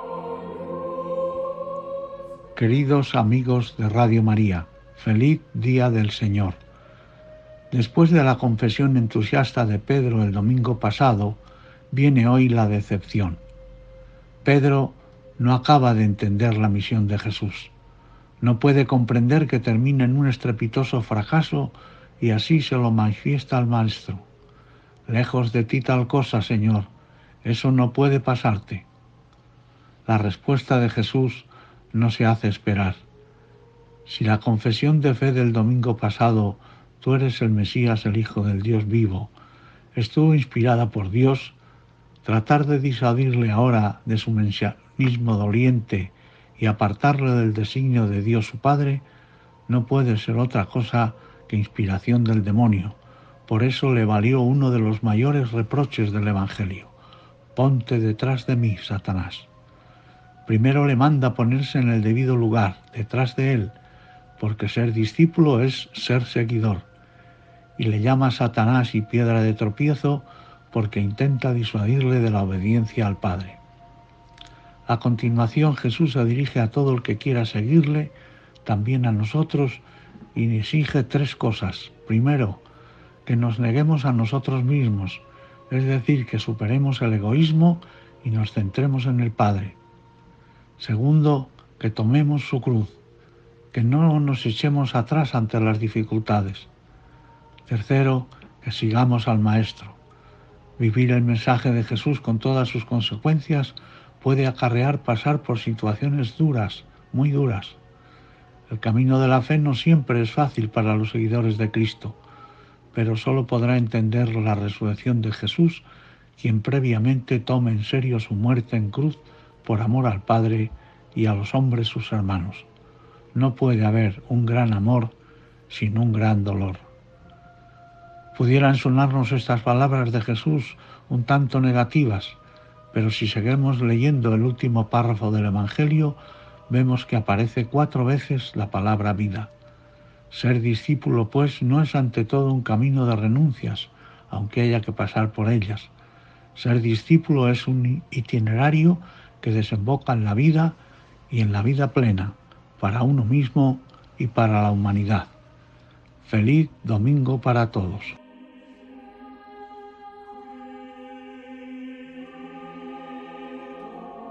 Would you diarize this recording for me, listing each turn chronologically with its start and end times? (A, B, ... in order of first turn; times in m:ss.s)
0:02.5-0:06.6 A
0:07.7-0:13.4 A
0:14.4-0:17.7 A
0:18.4-0:24.2 A
0:25.1-0:26.9 A
0:27.4-0:28.9 A
0:30.0-0:33.0 A
0:34.0-0:39.3 A
0:39.9-0:41.6 A
0:42.2-0:49.0 A
0:49.7-0:56.9 A
0:57.5-0:59.5 A
1:00.4-1:03.8 A
1:04.4-1:06.8 A
1:07.8-1:13.6 A
1:14.9-1:19.8 A
1:20.3-1:22.6 A
1:23.2-1:29.8 A
1:30.8-1:33.0 A
1:33.7-1:36.7 A
1:37.7-1:40.0 A
1:40.8-1:47.8 A
1:48.7-1:52.2 A
1:52.9-1:55.8 A
1:56.4-2:02.7 A
2:03.3-2:05.1 A
2:05.7-2:06.8 A
2:08.3-2:12.4 A
2:12.9-2:16.2 A
2:16.7-2:19.5 A
2:20.3-2:25.9 A
2:26.5-2:30.8 A
2:31.3-2:35.3 A
2:36.2-2:38.2 A